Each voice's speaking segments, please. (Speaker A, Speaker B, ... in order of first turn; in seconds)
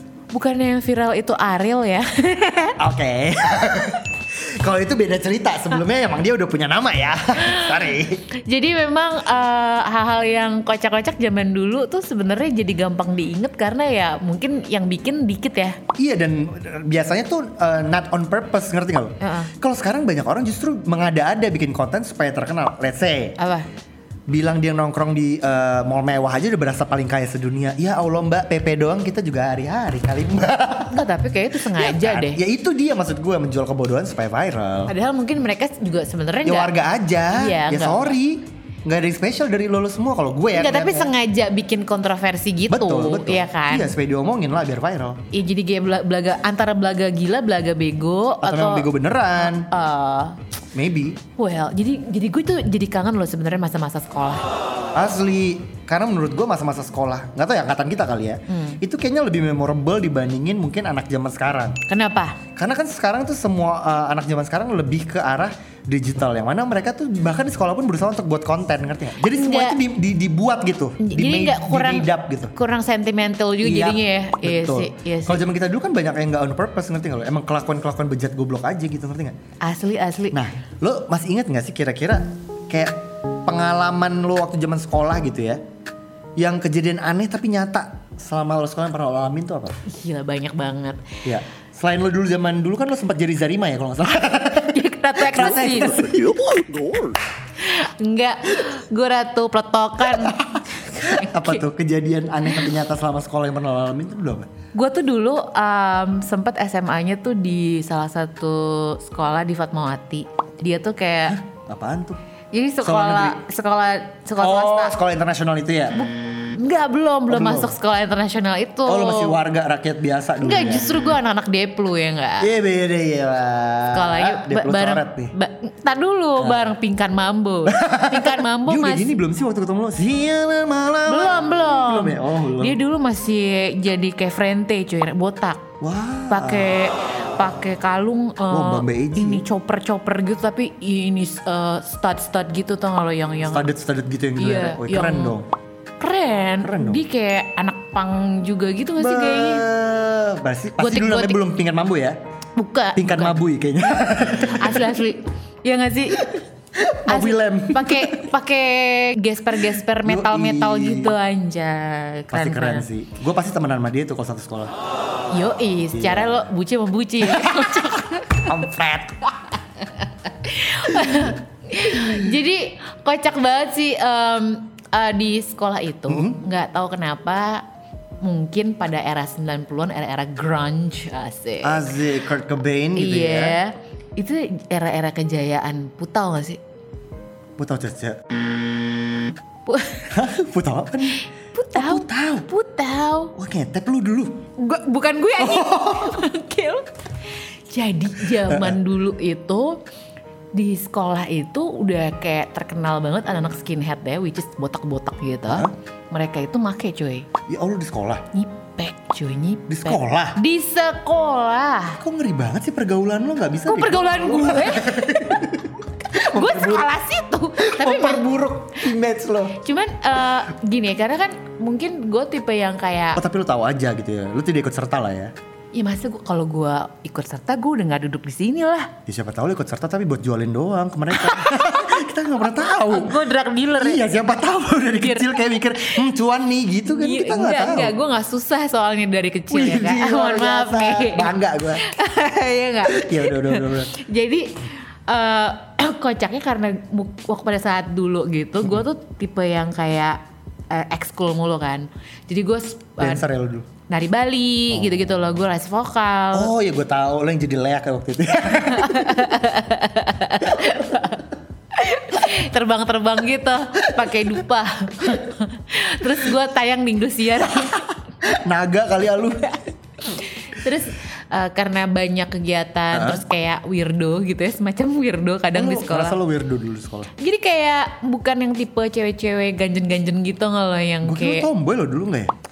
Speaker A: 0.3-2.8, 7.4-15.8, 19.2-19.5, 23.4-23.6, 30.9-32.4, 34.9-36.7, 37.3-38.2, 40.5-43.9, 45.3-50.4, 51.4-54.4, 58.5-58.8, 61.9-62.4, 69.2-69.8, 71.0-75.4, 79.6-80.3, 89.9-91.0, 94.6-96.1, 97.6-101.6, 104.7-111.4, 112.5-115.0, 116.0-119.4, 120.4-122.5, 123.9-129.1, 131.1-135.7, 136.3-143.7, 144.4-145.3, 146.0-149.6, 150.8-151.4, 152.6-153.4, 154.6-156.3, 157.1-162.8, 165.3-168.5, 169.9-177.6, 178.2-181.9, 182.9-186.6, 189.7-190.1, 191.5-193.3, 194.6-196.9, 197.7-199.8, 200.5-207.3, 208.3-212.0, 213.7-215.5, 216.1-218.3, 219.6-223.2, 225.7-228.9, 231.1-231.9, 232.6-234.0, 235.0-235.4, 236.8-253.2, 253.9-256.5, 258.7-267.9, 270.1-276.2, 277.2-281.5
Speaker B: 2.8-8.3, 16.0-23.4, 24.3-34.9, 36.4-41.1, 42.7-45.2, 48.4-49.7, 50.7-51.2, 54.9-61.8, 62.5-72.5, 73.6-79.3, 80.3-85.6, 86.4-89.8, 91.2-97.1, 100.1-104.5, 111.3-112.2, 112.8-113.4, 114.4-116.0, 117.3-117.7, 118.8-121.0, 122.4-125.3, 126.4-126.7, 127.7-132.8, 135.8-136.8, 138.5-139.4, 143.5-145.5, 146.6-147.0, 149.0-152.2, 152.9-155.0, 156.2-158.3, 159.7-161.2, 162.3-164.7, 165.9-166.5, 167.2-169.3, 170.9-171.3, 171.9-172.2, 176.1-176.4, 181.6-183.6, 187.6-188.2, 190.1-191.2, 191.7-192.4, 193.3-194.4, 195.4-196.2, 198.3-198.8, 207.5-208.2, 209.7-210.4, 212.0-216.9, 217.6-219.6, 223.1-225.3, 229.1-233.2, 233.8-237.9, 239.5-241.8, 242.9-243.9, 253.0-253.7, 254.7-255.2, 256.3-259.4, 263.9-264.3, 268.2-269.6, 272.9-273.2, 275.5-277.1, 281.0-282.3